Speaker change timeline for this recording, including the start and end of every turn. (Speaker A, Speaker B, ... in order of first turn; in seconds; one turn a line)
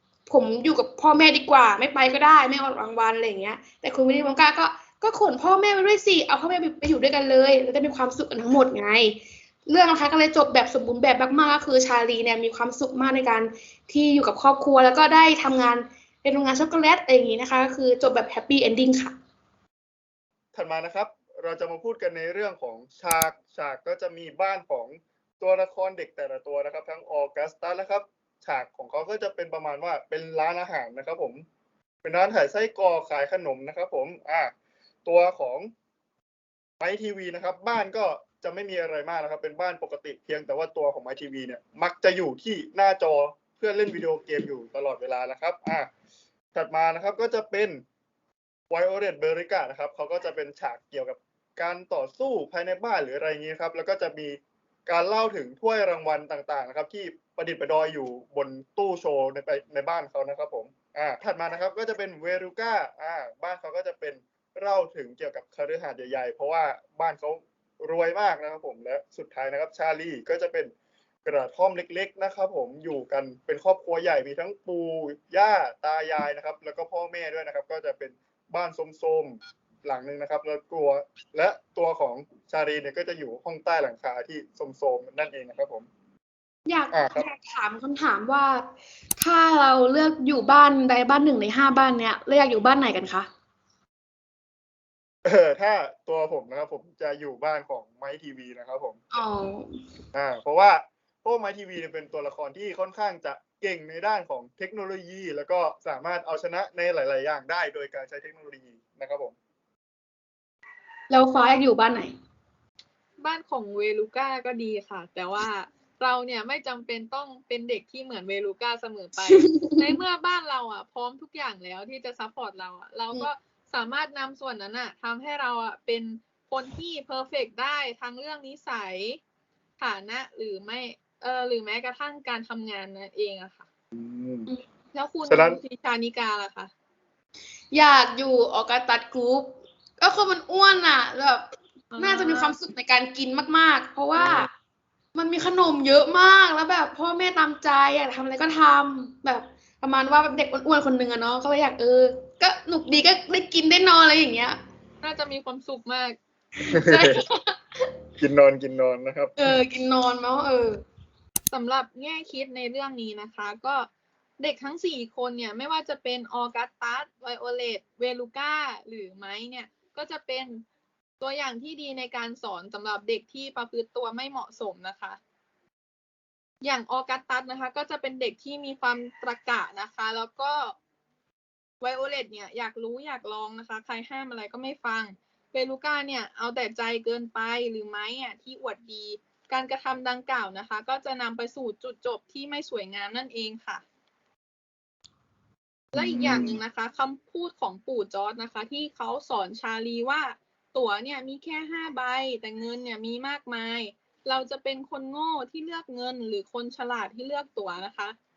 Speaker A: 0.3-19.1
Speaker B: 20.5-31.4
Speaker B: 32.0-34.5
Speaker B: 35.0-35.7
Speaker B: 36.8-45.9
Speaker B: 46.5-47.8
Speaker B: 48.7-70.7
Speaker B: 71.2-85.9
Speaker A: 86.7-93.3
Speaker B: 86.9-87.2
Speaker B: 95.2-99.0
Speaker A: 99.1-99.8
Speaker B: 100.1-109.4
Speaker A: 111.1-112.1
Speaker C: 113.2-129.2
Speaker A: 119.2-120.0
Speaker C: 129.8-133.7
Speaker B: 133.9-134.5
Speaker C: 134.9-136.7
Speaker B: 135.3-135.6
Speaker A: 137.7-141.4
Speaker C: 141.9-142.6
Speaker A: 142.0-144.5
Speaker B: 144.2-144.5
Speaker A: 145.1-154.6
Speaker C: 155.0-156.2
Speaker A: 156.6-157.6
Speaker B: 156.7-157.2
Speaker B: 158.2-159.4
Speaker A: 159.4-160.8
Speaker C: 161.5-163.9
Speaker C: 164.4-170.7
Speaker C: 171.2-175.2
Speaker C: 176.6-180.8
Speaker C: 181.8-193.8
Speaker C: 195.9-208.2
Speaker B: 195.9-196.6